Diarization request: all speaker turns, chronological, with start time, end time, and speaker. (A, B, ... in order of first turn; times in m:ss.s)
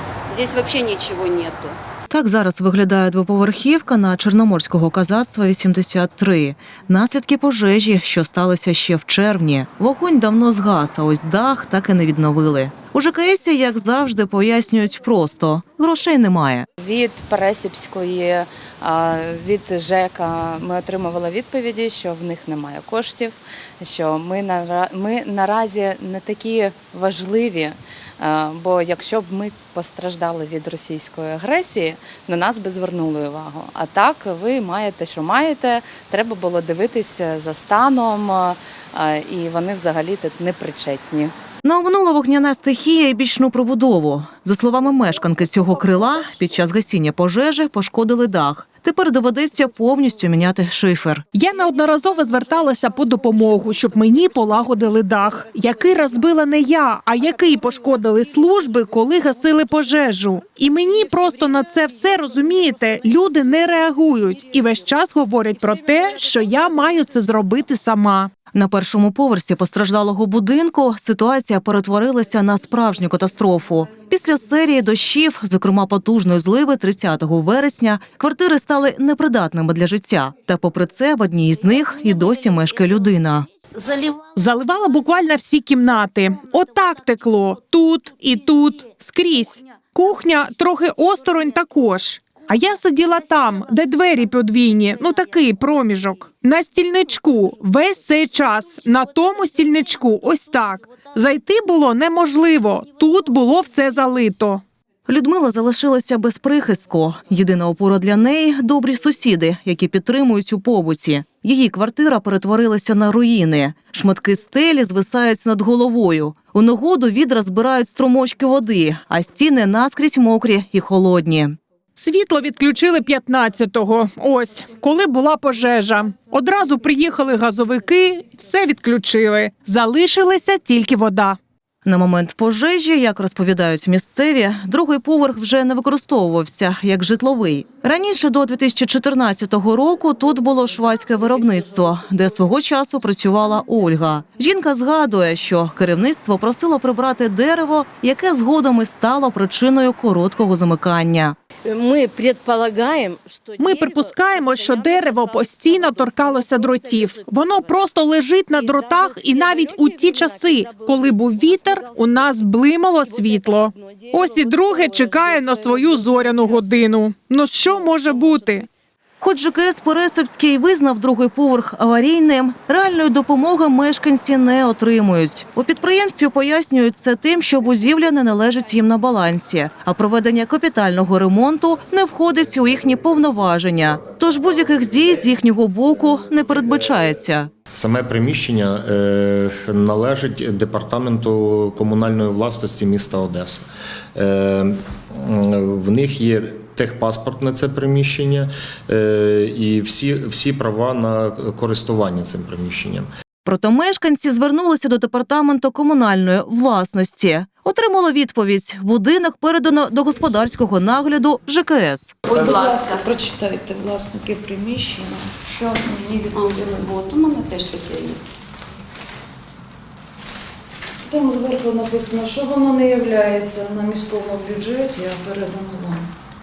0:00.3-0:01.7 A
0:02.1-0:16.7 B
0:16.8-0:41.3 C
0:41.6-0:51.2 B
0:51.3-1:08.3 D
1:08.5-1:23.5 B
1:24.3-1:44.6 D
1:45.1-2:01.5 B
2:01.9-2:11.4 D
2:11.8-2:31.4 B
2:31.6-2:35.4 E
2:33.6-2:48.7 D
2:38.8-2:39.4 E
2:41.3-2:41.6 E
2:49.2-3:07.5 B
3:07.7-3:23.1 F
3:23.4-3:32.2 B
3:32.3-3:33.0 A
3:32.3-3:36.8 G
3:36.3-3:38.2 A
3:41.1-3:46.1 G